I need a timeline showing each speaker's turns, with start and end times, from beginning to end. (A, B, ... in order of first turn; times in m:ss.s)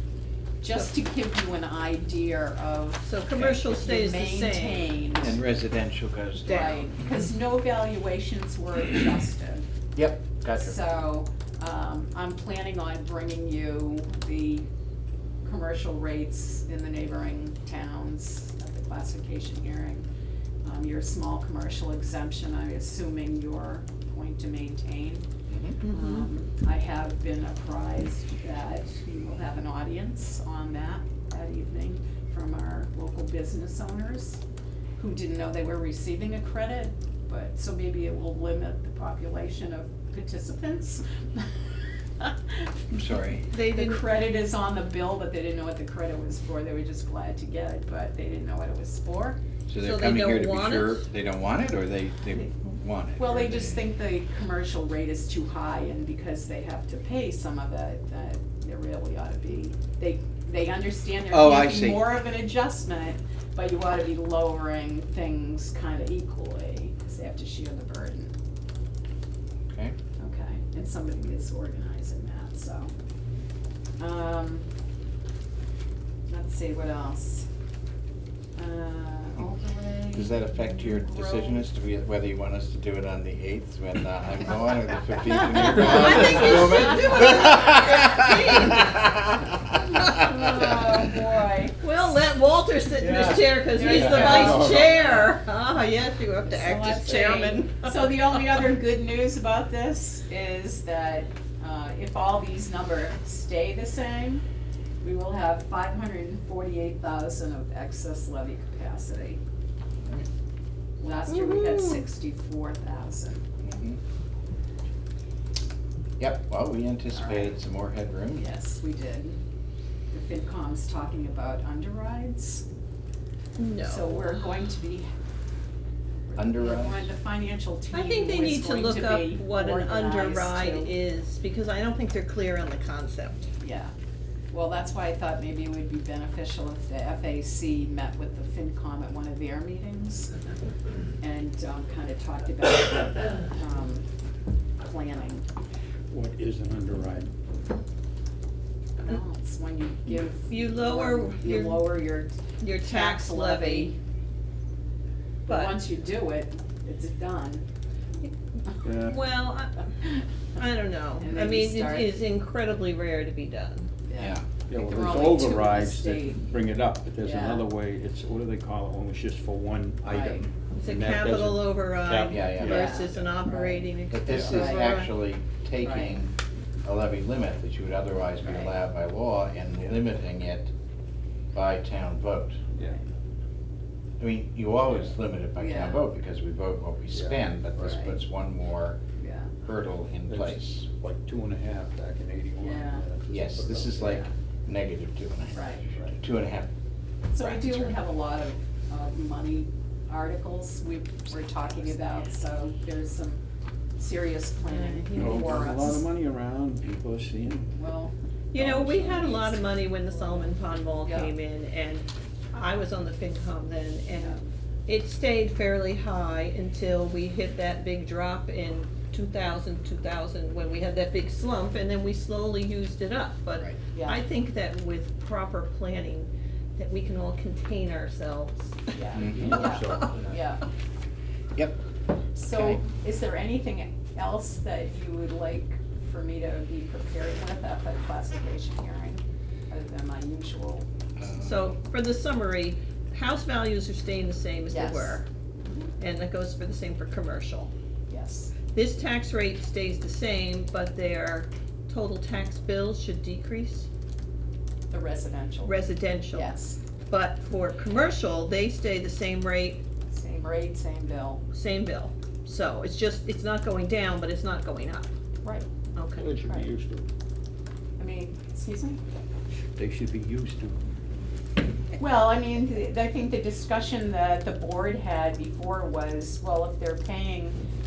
0:00.6-0:05.4 A
0:03.1-0:04.9 B
0:03.4-0:03.6 C
0:05.2-0:06.7 C
0:06.4-0:09.7 A
0:06.5-0:06.7 B
0:10.0-0:10.7 C
0:10.6-0:14.7 A
0:15.4-0:20.1 A
0:20.6-0:25.3 A
0:25.5-0:25.8 C
0:25.8-0:26.3 B
0:25.9-0:34.4 A
0:35.0-0:41.6 A
0:42.2-0:42.7 A
0:42.9-0:43.5 C
0:43.5-0:44.0 B
0:43.7-0:49.4 A
0:49.7-0:53.8 C
0:49.8-0:51.0 B
0:53.2-1:08.3 A
1:01.3-1:02.1 C
1:09.7-1:10.0 C
1:10.2-1:12.9 A
1:14.0-1:14.7 A
1:16.3-1:17.5 A
1:18.6-1:21.7 A
1:20.1-1:29.2 C
1:25.7-1:29.0 B
1:25.8-1:26.5 D
1:29.9-1:31.8 A
1:31.8-1:38.2 B
1:33.0-1:35.3 D
1:33.8-1:35.2 A
1:36.5-1:44.4 A
1:45.0-1:49.4 A
1:51.0-1:53.4 A
1:51.4-1:51.9 B
1:53.6-1:54.0 C
1:56.2-1:58.4 C
1:57.1-1:57.6 A
1:58.4-1:59.4 A
2:00.1-2:02.7 A
2:03.6-2:04.4 B
2:03.8-2:05.1 A
2:06.3-2:10.9 A
2:06.4-2:07.1 C
2:07.9-2:13.5 B
2:13.6-2:13.9 A
2:14.5-2:20.3 A
2:21.2-2:24.1 A
2:24.8-2:25.5 A
2:26.1-2:27.3 D
2:29.0-2:34.0 A
2:30.5-2:31.9 B
2:32.6-2:33.9 B
2:35.5-2:35.8 B
2:35.5-2:37.7 A
2:38.2-2:38.8 A
2:38.8-2:39.2 D
2:39.0-2:43.9 B
2:41.2-2:42.2 A
2:44.0-2:46.5 A
2:44.2-2:44.5 C
2:44.7-2:53.0 D
2:47.2-2:47.6 A
2:50.0-2:50.4 A
2:50.8-2:55.1 B
2:52.3-2:52.9 C
2:52.6-2:53.9 A
2:54.1-3:00.7 C
2:54.3-2:54.6 D
2:54.5-2:54.9 A
2:55.8-2:56.2 A
2:58.4-2:58.7 A
3:01.5-3:02.6 C
3:02.8-3:03.1 A
3:04.2-3:09.0 C
3:05.6-3:06.0 A
3:07.8-3:08.2 A
3:09.2-3:09.5 A
3:09.6-3:10.9 C
3:10.3-3:14.2 D
3:12.6-3:13.0 A
3:13.3-3:16.7 C
3:14.0-3:14.3 A
3:15.5-3:16.2 A
3:17.3-3:23.4 A
3:17.4-3:18.0 C
3:24.0-3:26.0 A
3:24.6-3:25.6 B
3:25.2-3:27.7 D
3:27.7-3:31.3 A
3:28.5-3:50.1 B
3:34.2-3:34.4 A
3:43.9-3:44.2 A
3:49.0-3:50.6 A
3:49.2-3:50.3 D
3:49.2-3:49.6 C
3:52.4-4:00.9 A
4:01.2-4:01.7 C
4:01.4-4:05.2 B
4:04.7-4:05.3 A
4:06.0-4:07.7 B
4:08.1-4:08.6 A
4:08.7-4:13.9 B
4:14.9-4:16.8 A
4:15.6-4:16.5 B
4:17.1-4:19.8 B
4:20.1-4:21.4 A
4:21.5-4:25.1 B
4:26.0-4:26.3 B
4:26.2-4:27.1 D
4:26.4-4:26.7 A
4:28.0-4:29.0 A
4:29.8-4:30.9 D
4:32.0-4:37.6 A